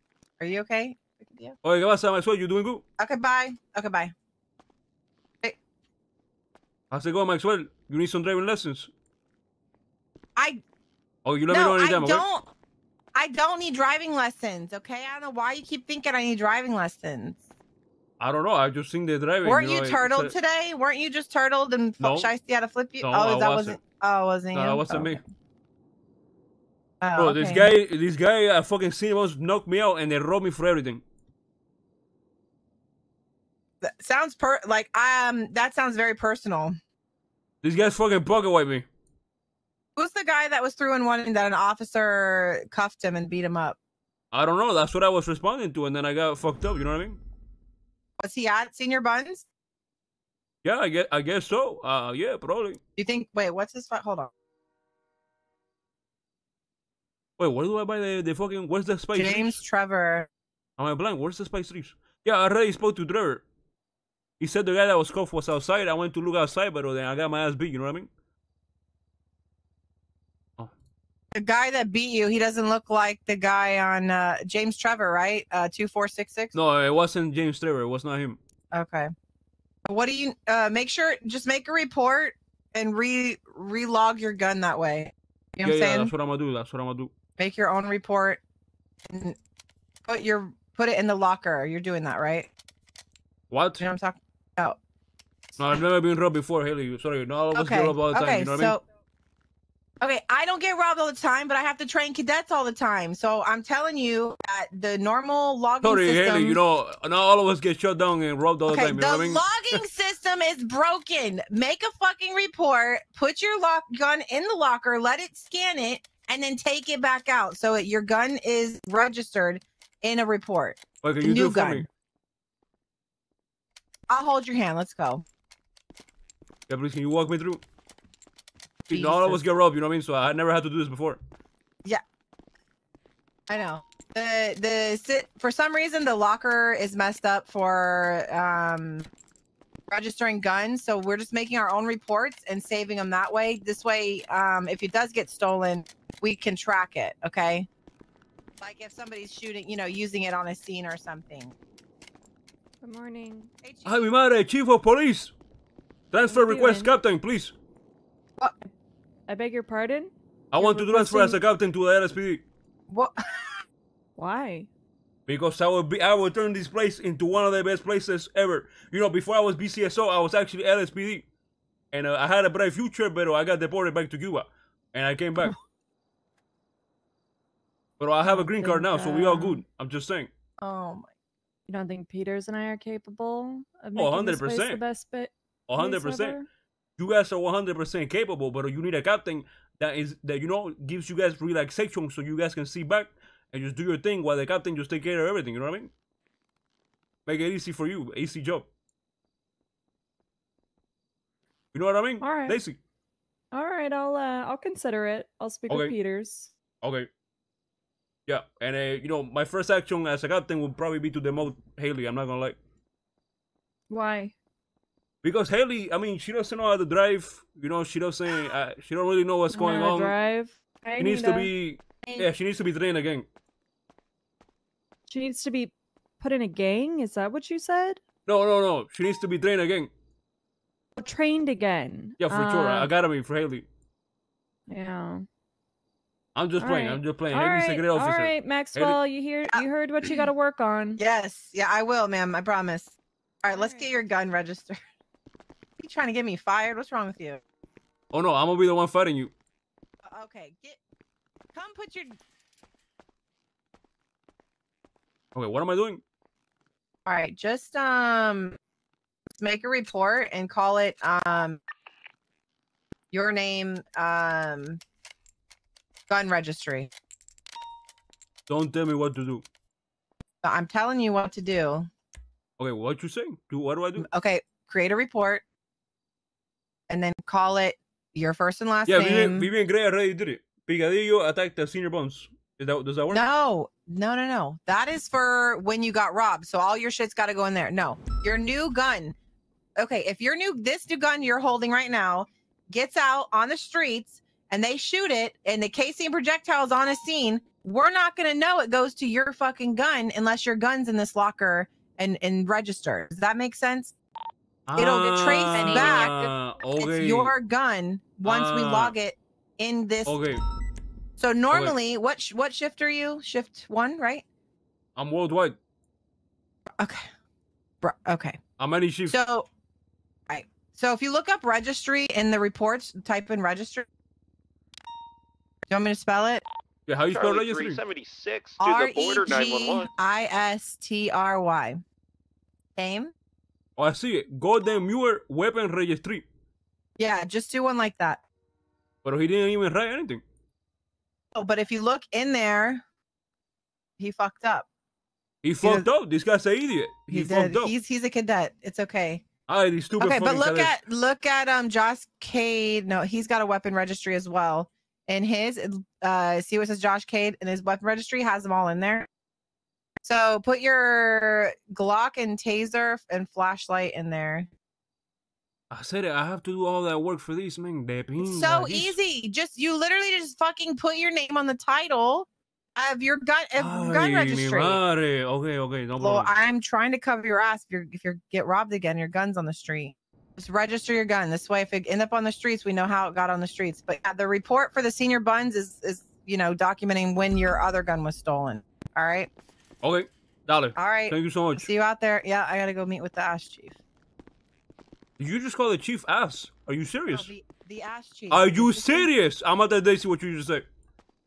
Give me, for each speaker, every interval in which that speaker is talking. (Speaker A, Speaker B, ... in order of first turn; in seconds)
Speaker A: 0.4-1.6, 3.0-4.1, 10.4-10.6, 11.5-12.5, 13.2-17.4, 19.4-25.2, 27.0-27.7, 33.8-36.7, 40.0-43.8, 48.2-49.5, 53.0-54.3, 59.1-60.3, 71.3-76.5, 78.7-79.1, 79.8-86.1, 87.4-88.4, 90.1-92.5, 93.8-94.8, 97.5-98.8, 100.0-106.6, 108.7-121.9, 124.1-125.2, 128.9-129.4, 133.5-139.1, 139.9-147.7, 148.6-151.5, 153.6-154.1, 162.9-163.6, 180.6-181.1, 239.5-240.1, 241.0-244.8, 245.8-247.4, 250.0-250.8, 251.5-252.2, 257.1-258.6, 259.4-261.6, 263.1-264.8, 266.1-266.9, 270.4-271.9, 274.0-275.4, 276.9-279.5, 283.1-289.1, 289.8-303.9, 304.8-310.2, 311.2-314.2, 317.8-318.4, 319.1-319.5, 320.3-323.9, 325.7-326.4, 328.6-331.8, 332.8-333.1, 337.0-338.2, 341.3-342.8, 344.0-344.7, 345.6-345.9, 347.1-349.2, 350.0-359.1, 360.0-364.5, 368.2-374.8, 376.0-389.3, 390.8-393.8, 397.1-399.1
Speaker B: 1.6-2.8, 6.9-8.9, 11.2-12.2, 18.2-20.3, 22.0-22.3, 23.0-23.8, 24.5-25.2, 27.2-31.0, 37.6-38.9, 44.3-47.2, 50.6-52.8, 57.4-59.6, 60.8-63.4, 64.4-68.1, 76.5-78.4, 85.6-87.1, 93.5-93.8, 95.6-98.8, 105.8-109.8, 121.0-121.9, 126.7-127.6, 128.9-131.2, 153.8-155.3, 156.1-157.5, 160.5-162.4, 165.3-171.3, 171.9-175.5, 178.0-180.3, 183.9-184.8, 185.7-186.4, 187.0-195.9, 197.2-198.7, 201.7-202.8, 205.7-205.9, 206.8-207.1, 208.3-212.6, 215.2-220.1, 221.0-223.3, 228.2-229.9, 232.2-233.7, 236.3-239.0, 248.1-249.3, 255.3-256.0, 268.5-269.4, 272.6-274.1, 278.9-283.2, 304.7-307.3, 308.2-308.9, 310.1-310.4, 314.9-315.6, 318.6-319.1, 326.9-327.8, 333.8-336.2, 339.0-340.2, 345.4-347.7, 349.5-350.8, 365.7-369.0, 373.6-376.3, 389.8-391.7, 395.2-397.3, 398.3-400.6
Speaker C: 152.8-153.5, 156.2-156.9, 159.3-161.4, 164.2-164.7, 178.3-179.6, 181.7-186.5, 202.2-202.6, 203.5-206.5, 213.9-214.3, 219.5-221.5, 225.1-228.0, 231.0-232.9, 234.7-235.2, 236.6-241.0, 243.5-243.9, 305.5-306.1
Speaker D: 327.1-329.9